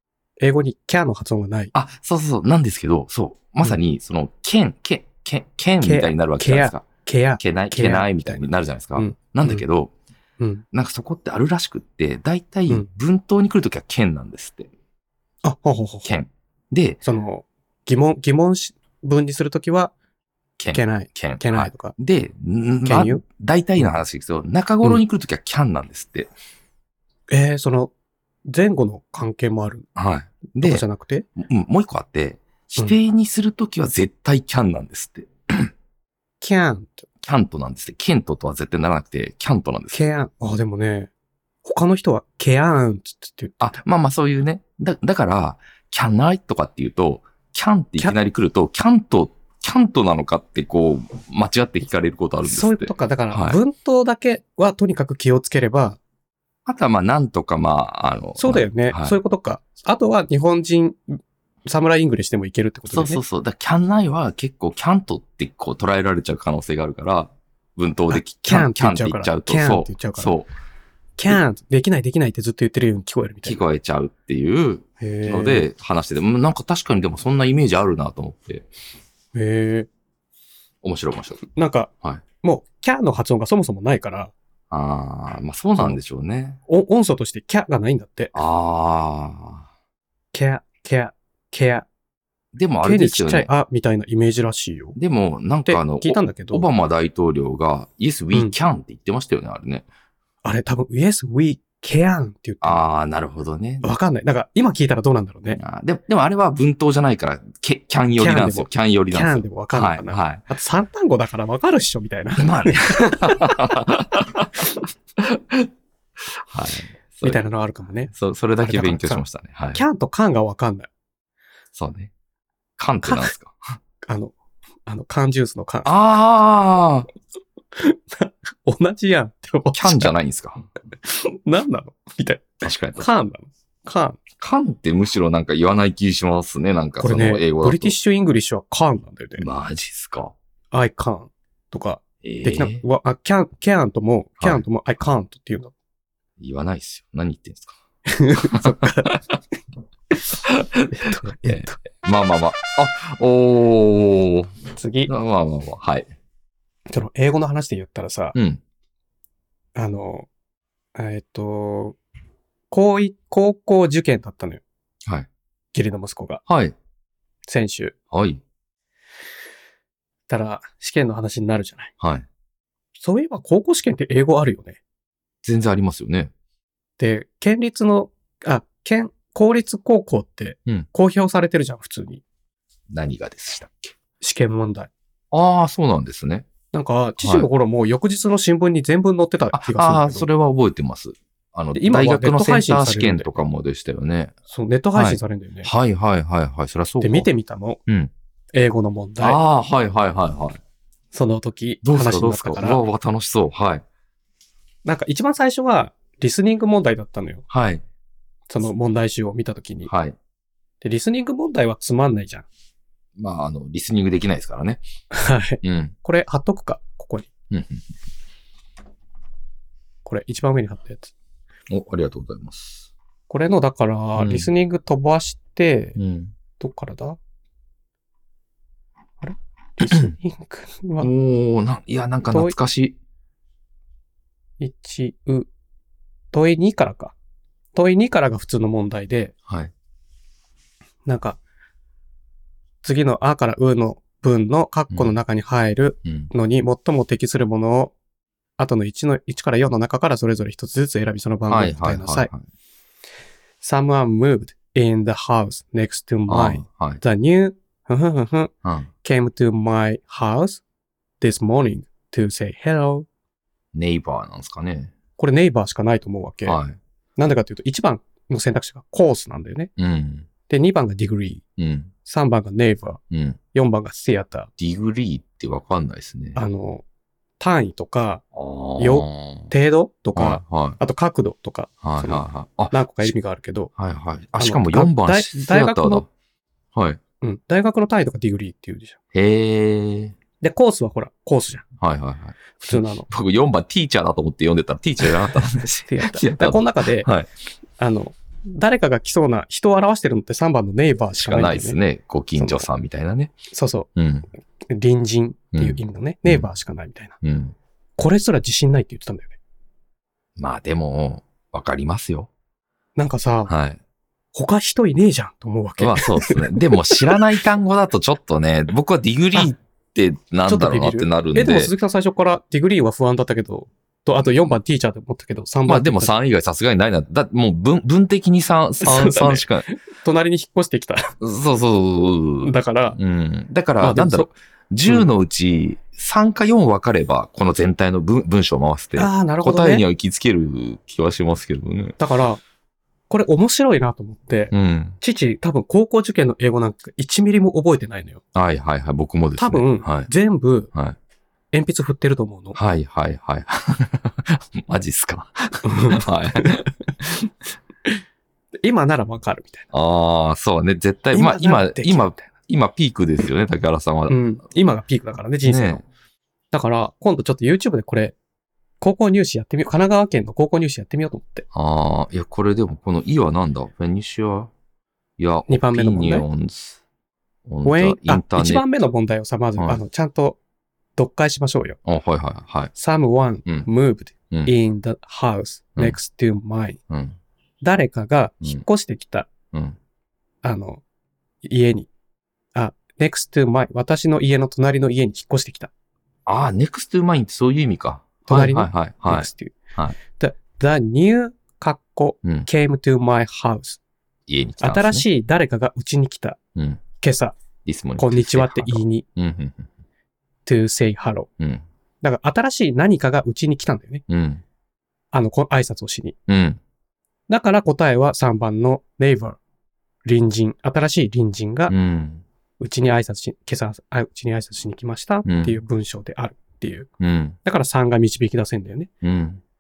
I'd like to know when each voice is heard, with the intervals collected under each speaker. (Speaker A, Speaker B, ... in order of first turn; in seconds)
Speaker A: 0.4-1.7, 5.8-8.4, 9.0-9.7, 10.4-10.6, 15.4-16.1, 17.0-19.9, 20.7-21.9, 22.9-23.2, 27.3-27.9, 28.4-29.9, 30.6-31.3, 36.4-37.1, 39.9-41.1, 41.6-43.8, 52.5-56.0, 58.4-63.2, 68.1-70.3, 71.2-73.6, 75.0-75.7, 79.3-79.9, 81.4-81.9, 82.4-84.3, 86.7-88.3, 90.3-91.9, 92.8-95.0, 95.7-96.7, 100.4-102.8, 103.8-105.6, 108.2-113.6, 117.2-118.1, 118.6-120.9, 123.0-123.3, 124.0-124.3, 124.9-125.9, 127.8-130.1, 131.0-134.2, 137.0-139.5, 140.7-145.7, 148.1-149.2, 150.9-151.8, 154.8-155.1, 156.9-158.4, 159.8-160.3, 160.9-162.0, 162.7-164.6, 165.7-166.4, 167.5-167.9, 170.3-171.9, 173.0-174.8, 177.0-182.2, 184.2-184.9, 186.7-190.3, 191.8-193.3, 194.5-195.7, 197.0-197.8, 198.5-199.4, 201.1-202.8, 204.8-207.4, 208.5-209.9, 210.8-212.5, 215.1-217.3, 220.1-221.1, 223.3-226.0, 226.6-227.2, 229.2-231.1, 232.3-232.6, 234.6-235.5, 236.3-237.2, 237.8-239.3, 241.1-241.4, 242.8-247.9, 248.6-252.3, 253.6-258.5, 259.0-260.6, 261.2-263.1, 265.2-266.6, 267.2-269.7, 270.5-271.4, 272.1-273.0, 273.5-274.5, 276.4-276.9, 277.4-278.2, 278.8-283.7, 284.4-286.1, 287.2-289.0, 290.4-291.6, 292.6-293.1, 295.9-297.1, 297.8-301.8, 302.4-302.7, 303.5-303.9, 304.7-307.2, 308.0-309.4, 313.0-313.5, 314.3-317.2, 320.5-326.1, 328.8-331.1, 332.4-333.0, 333.8-334.3, 339.0-339.8, 342.0-342.4, 343.1-348.2, 349.4-350.7, 351.5-352.6, 355.6-356.7, 358.6-359.7, 361.1-362.3, 364.1-365.8, 366.5-368.1, 368.8-371.5, 375.5-376.3, 377.6-380.4, 381.0-381.8, 382.8-386.8, 387.6-389.3, 390.4-390.8, 391.4-391.9, 392.6-395.7, 398.2-399.6, 400.2-403.8, 404.6-406.4, 407.0-407.4, 408.0-409.1, 410.5-411.3, 412.0-414.0, 415.1-416.2, 417.3-419.4, 420.1-421.7, 422.6-426.9, 427.4-428.9
Speaker B: 1.7-6.8, 7.4-9.9, 10.7-14.7, 16.1-17.0, 20.6-26.3, 30.0-30.8, 31.4-35.7, 37.2-40.0, 43.6-53.6, 56.7-59.2, 62.9-70.5, 73.4-78.7, 80.8-81.4, 84.7-86.6, 88.3-89.7, 92.5-93.5, 95.0-99.9, 102.6-103.9, 105.5-110.4, 112.4-115.7, 116.2-117.5, 118.1-119.8, 121.8-122.1, 122.8-123.6, 125.8-127.1, 129.8-130.7, 132.6-133.1, 134.4-138.0, 139.4-140.3, 142.2-142.8, 146.4-147.8, 148.5-149.4, 150.4-154.5, 155.1-156.1, 158.3-158.6, 166.5-166.8, 168.1-168.4, 172.0-172.3, 175.4-176.3, 182.9-183.9, 185.3-186.5, 187.2-187.5, 189.5-194.3, 194.9-197.3, 197.9-198.1, 199.2-200.6, 201.8-203.8, 207.5-207.8, 209.9-210.2, 213.2-214.8, 215.6-215.9, 217.5-217.9, 221.7-222.9, 224.2-224.5, 226.0-226.3, 231.0-233.0, 239.5-239.7, 244.9-245.2, 246.0-246.3, 251.5-252.4, 256.3-257.0, 258.6-258.9, 263.7-264.9, 266.4-266.8, 269.8-270.3, 271.6-271.9, 273.1-273.4, 274.6-276.4, 278.3-279.5, 280.1-280.8, 281.8-283.1, 283.8-286.1, 286.8-287.0, 289.1-290.1, 291.8-297.3, 301.1-303.3, 304.0-304.3, 305.5-306.5, 307.2-307.6, 310.4-312.3, 313.5-313.8, 315.8-321.7, 325.7-329.7, 331.2-342.0, 344.5-345.0, 348.4-350.1, 352.6-357.2, 359.7-364.2, 365.4-365.8, 371.5-374.5, 375.2-376.8, 377.5-378.6, 381.9-382.7, 386.9-387.2, 389.5-389.8, 396.3-400.0, 404.3-405.1, 406.6-406.8, 407.6-409.7, 411.4-411.6, 414.1-414.4, 416.3-416.6, 421.7-422.2, 425.2-425.6, 427.0-427.4, 429.0-429.4